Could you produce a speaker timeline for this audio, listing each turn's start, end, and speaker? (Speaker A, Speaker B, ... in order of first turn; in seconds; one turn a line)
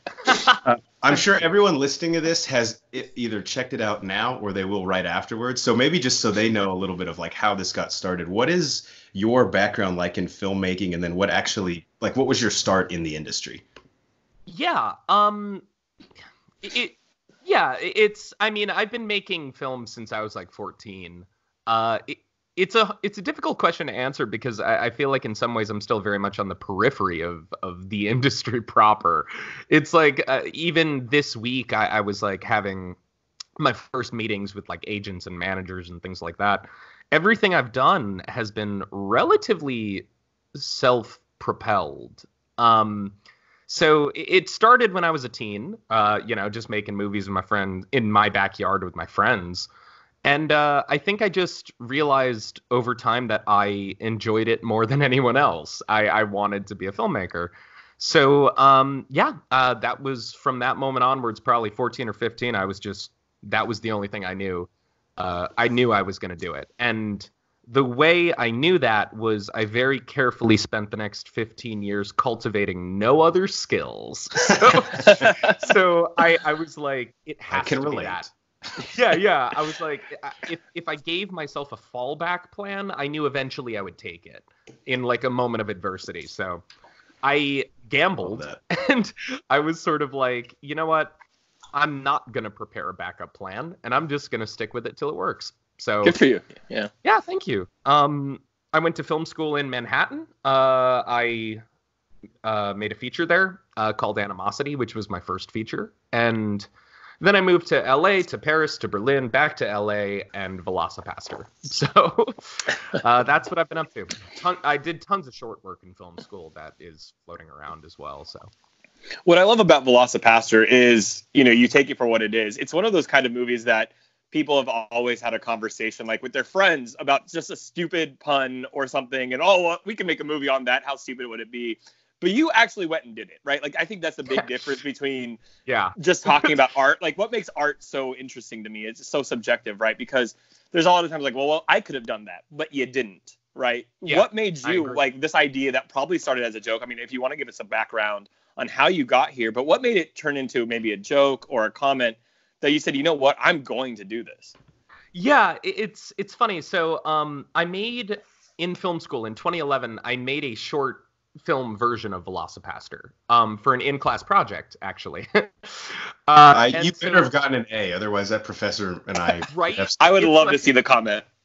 Speaker A: 0.2-0.6
Speaker B: 0.4-13.6
Speaker A: 14.5-15.7
Speaker A: 16.6-33.0
Speaker A: 33.6-43.1
Speaker A: 43.7-49.7
Speaker A: 50.2-86.6
Speaker C: 75.0-75.6
Speaker B: 77.5-78.3
Speaker A: 87.2-91.1
Speaker B: 88.2-88.6
Speaker A: 91.7-96.2
Speaker C: 96.0-96.9
Speaker A: 97.0-101.6
Speaker A: 102.4-106.7
Speaker A: 107.2-118.5
Speaker C: 119.2-135.4
Speaker A: 134.3-134.7
Speaker A: 135.7-136.6
Speaker C: 136.0-154.5
Speaker A: 144.1-145.0
Speaker A: 155.1-167.3
Speaker B: 166.5-169.9
Speaker A: 169.5-170.7
Speaker C: 170.0-171.3